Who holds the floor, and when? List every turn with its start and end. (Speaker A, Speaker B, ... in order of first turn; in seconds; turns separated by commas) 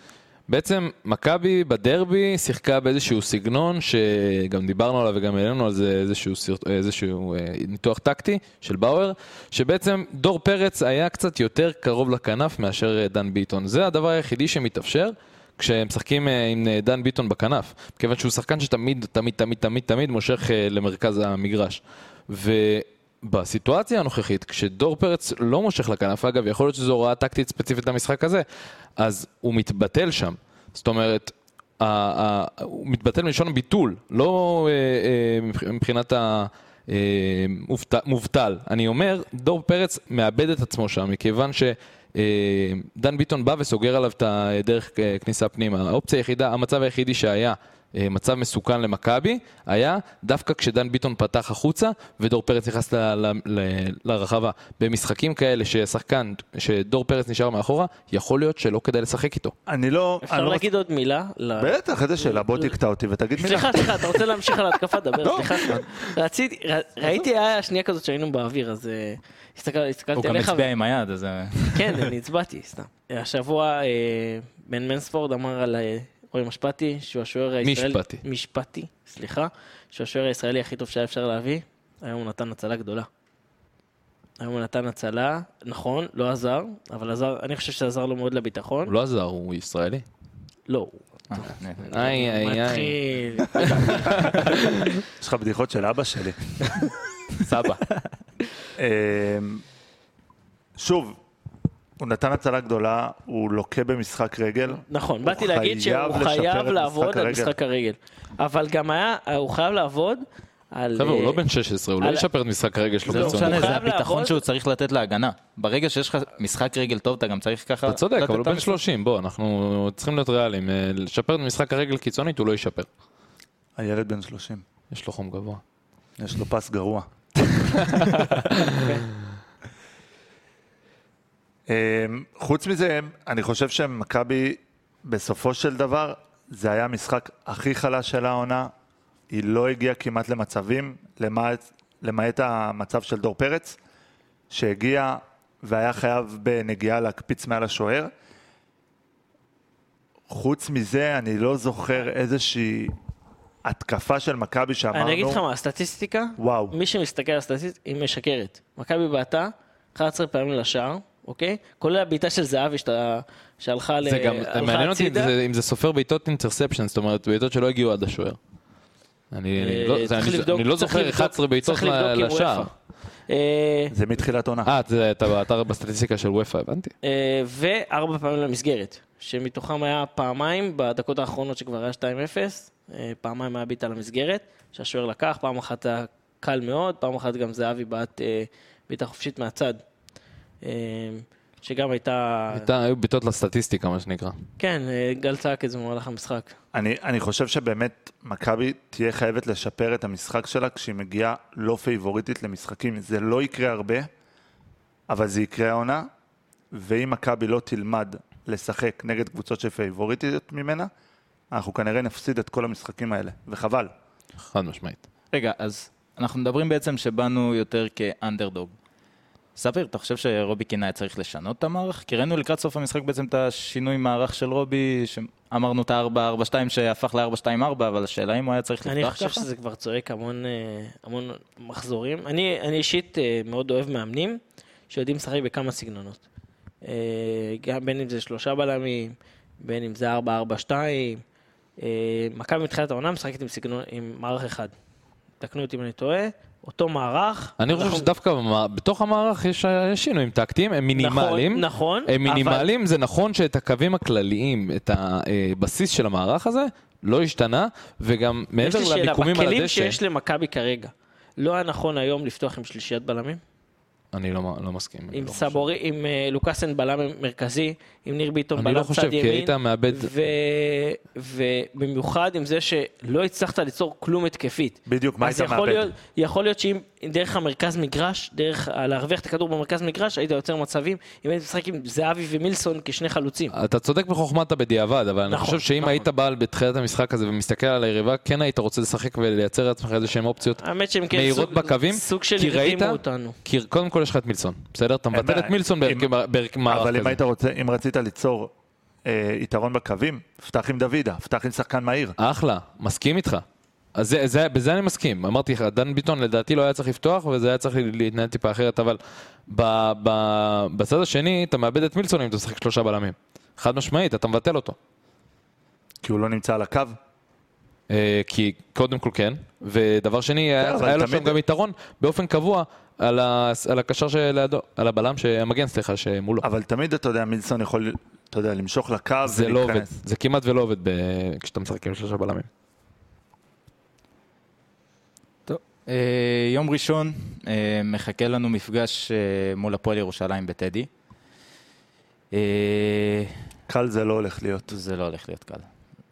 Speaker A: 0.5-28.4, Speaker A: 29.0-59.5, Speaker B: 59.7-60.7, Speaker C: 60.2-62.8, Speaker B: 61.6-64.6, Speaker C: 63.4-70.7, Speaker B: 65.2-65.9, Speaker D: 70.2-72.1, Speaker C: 71.7-83.1, Speaker A: 77.6-78.2, Speaker C: 84.4-88.9, Speaker A: 88.9-90.0, Speaker C: 90.7-94.4, Speaker D: 91.3-91.9, Speaker A: 91.9-93.0, Speaker A: 93.6-95.0, Speaker B: 95.1-96.8, Speaker A: 97.4-97.8, Speaker B: 98.8-99.6, Speaker B: 100.8-101.2, Speaker B: 102.0-107.5, Speaker C: 104.9-111.4, Speaker A: 111.0-113.8, Speaker C: 112.0-112.3, Speaker C: 113.1-114.4, Speaker D: 113.1-118.8, Speaker A: 117.9-122.9, Speaker B: 123.8-124.6, Speaker A: 124.9-125.6, Speaker B: 126.2-127.1, Speaker A: 127.7-129.0, Speaker B: 131.7-138.7, Speaker B: 139.3-143.8, Speaker B: 144.5-148.1, Speaker B: 150.3-152.9, Speaker B: 153.7-155.4, Speaker C: 154.9-165.3, Speaker B: 156.4-156.8, Speaker A: 164.0-168.4, Speaker A: 169.3-172.7, Speaker C: 169.6-172.7, Speaker C: 173.3-174.0, Speaker B: 173.9-174.7, Speaker A: 174.7-176.9, Speaker C: 177.0-189.8, Speaker C: 190.6-192.7, Speaker A: 192.5-194.4, Speaker C: 194.6-196.6, Speaker B: 196.7-204.1, Speaker B: 205.1-206.1, Speaker B: 206.7-210.9, Speaker B: 211.5-213.9, Speaker A: 214.4-215.0, Speaker D: 215.3-218.7, Speaker D: 219.6-229.5, Speaker C: 228.8-236.2, Speaker C: 236.8-241.2, Speaker C: 241.8-244.7, Speaker C: 245.4-248.1, Speaker A: 247.6-260.0, Speaker C: 250.9-252.7, Speaker C: 258.6-263.4, Speaker A: 264.1-265.6, Speaker C: 265.1-283.5, Speaker A: 268.6-270.1, Speaker B: 274.9-275.9, Speaker A: 283.5-290.6, Speaker C: 285.3-286.1, Speaker C: 290.6-293.4, Speaker A: 291.1-297.2, Speaker B: 295.1-296.1, Speaker B: 296.7-298.5, Speaker B: 299.1-302.2, Speaker A: 302.2-314.8, Speaker B: 316.0-317.0, Speaker A: 317.9-326.5, Speaker B: 320.6-321.4, Speaker B: 326.4-330.0, Speaker A: 329.2-332.5, Speaker D: 335.5-340.9, Speaker D: 342.3-343.4, Speaker B: 343.7-344.8, Speaker D: 344.7-345.7